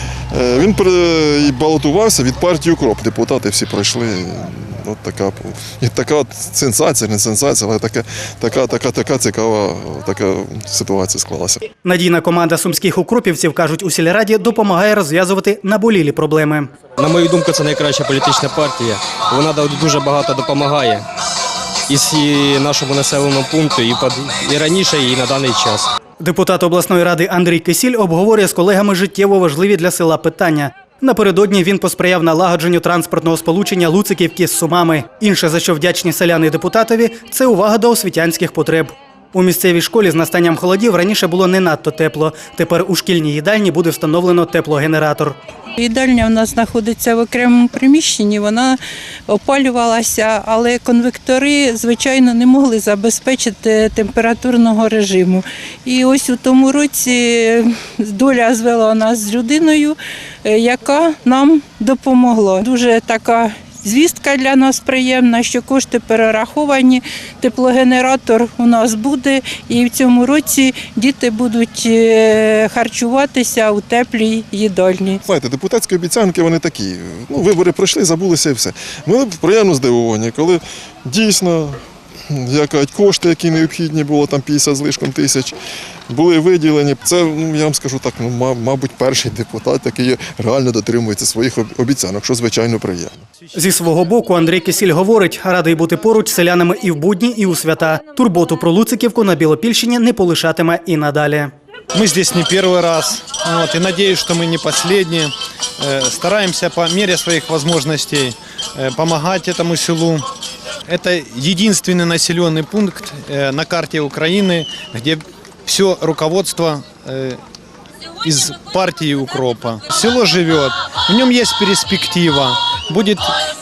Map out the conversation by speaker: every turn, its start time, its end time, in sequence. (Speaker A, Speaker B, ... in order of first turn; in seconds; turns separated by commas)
Speaker A: 0.3-11.6, Speaker B: 11.8-16.7, Speaker C: 17.0-21.0, Speaker C: 21.9-25.9, Speaker B: 26.2-45.4, Speaker D: 45.8-75.2, Speaker A: 75.2-85.5, Speaker A: 86.1-93.2, Speaker B: 93.5-101.5, Speaker E: 101.9-110.3, Speaker E: 110.9-117.4, Speaker E: 118.2-123.3